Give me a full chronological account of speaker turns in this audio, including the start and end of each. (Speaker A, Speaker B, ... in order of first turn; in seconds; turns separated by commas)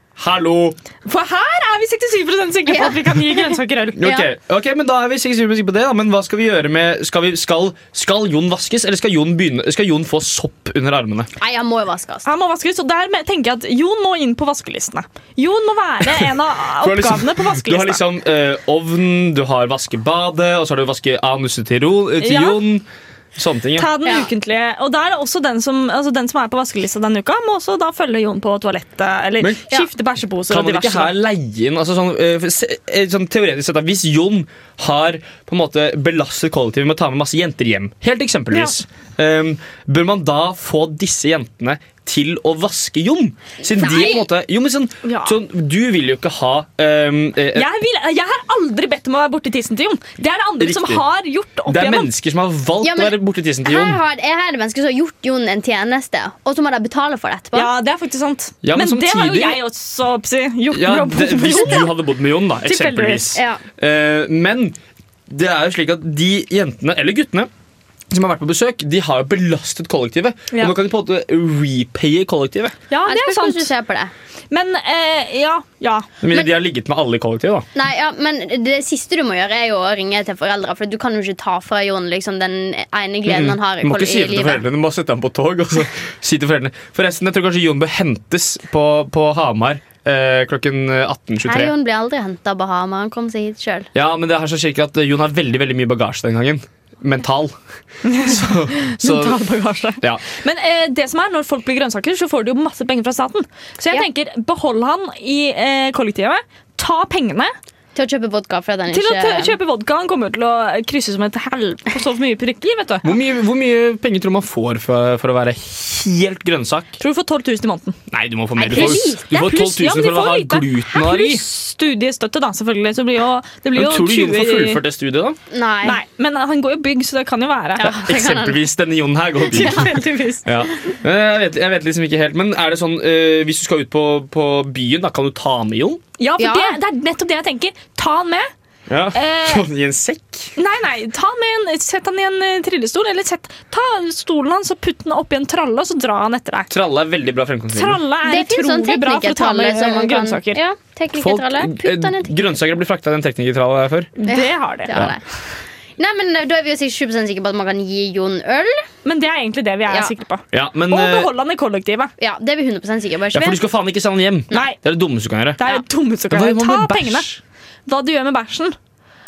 Speaker A: 0.2-0.8, Speaker B: 1.1-4.0, Speaker C: 2.7-2.9, Speaker A: 4.0-11.3, Speaker C: 4.0-4.3, Speaker C: 11.4-12.3, Speaker B: 12.2-18.0, Speaker A: 16.8-23.9, Speaker B: 22.2-22.6, Speaker B: 23.8-31.2, Speaker A: 29.4-29.9, Speaker A: 30.5-47.7, Speaker C: 43.8-44.2, Speaker B: 45.0-45.4, Speaker B: 47.5-52.1, Speaker A: 50.6-51.0, Speaker A: 51.7-54.0, Speaker C: 52.8-57.7, Speaker B: 57.5-62.0, Speaker A: 58.6-59.6, Speaker A: 60.7-64.8, Speaker B: 62.6-63.4, Speaker C: 63.4-63.6, Speaker A: 65.3-67.5, Speaker A: 68.1-72.8, Speaker B: 72.9-73.7, Speaker C: 73.1-74.1, Speaker B: 74.5-76.1, Speaker A: 76.2-77.7, Speaker C: 77.8-84.6, Speaker A: 83.3-91.7, Speaker C: 91.5-93.9, Speaker A: 94.0-97.6, Speaker B: 98.0-107.5, Speaker A: 98.2-99.4, Speaker C: 108.0-109.6, Speaker B: 108.9-113.0, Speaker A: 113.0-117.0, Speaker B: 117.0-118.0, Speaker A: 118.1-121.4, Speaker C: 118.6-119.2, Speaker B: 118.7-124.8, Speaker A: 123.8-125.4, Speaker C: 125.5-126.0, Speaker B: 125.8-127.9, Speaker C: 127.8-128.6, Speaker A: 127.8-129.9, Speaker B: 129.5-130.5, Speaker C: 129.5-129.9, Speaker A: 130.4-136.0, Speaker B: 136.2-138.5, Speaker C: 136.4-136.8, Speaker A: 138.9-140.5, Speaker B: 139.1-139.7, Speaker B: 140.6-146.7, Speaker A: 146.7-148.0, Speaker B: 147.7-150.6, Speaker C: 148.2-152.4, Speaker A: 151.1-154.1, Speaker B: 154.2-155.1, Speaker C: 154.3-155.2, Speaker C: 156.0-158.9, Speaker B: 159.1-162.1, Speaker A: 160.5-161.3, Speaker C: 162.2-163.6, Speaker A: 163.3-165.6, Speaker B: 164.5-164.8, Speaker B: 165.6-167.3, Speaker A: 166.3-167.4, Speaker B: 167.9-168.8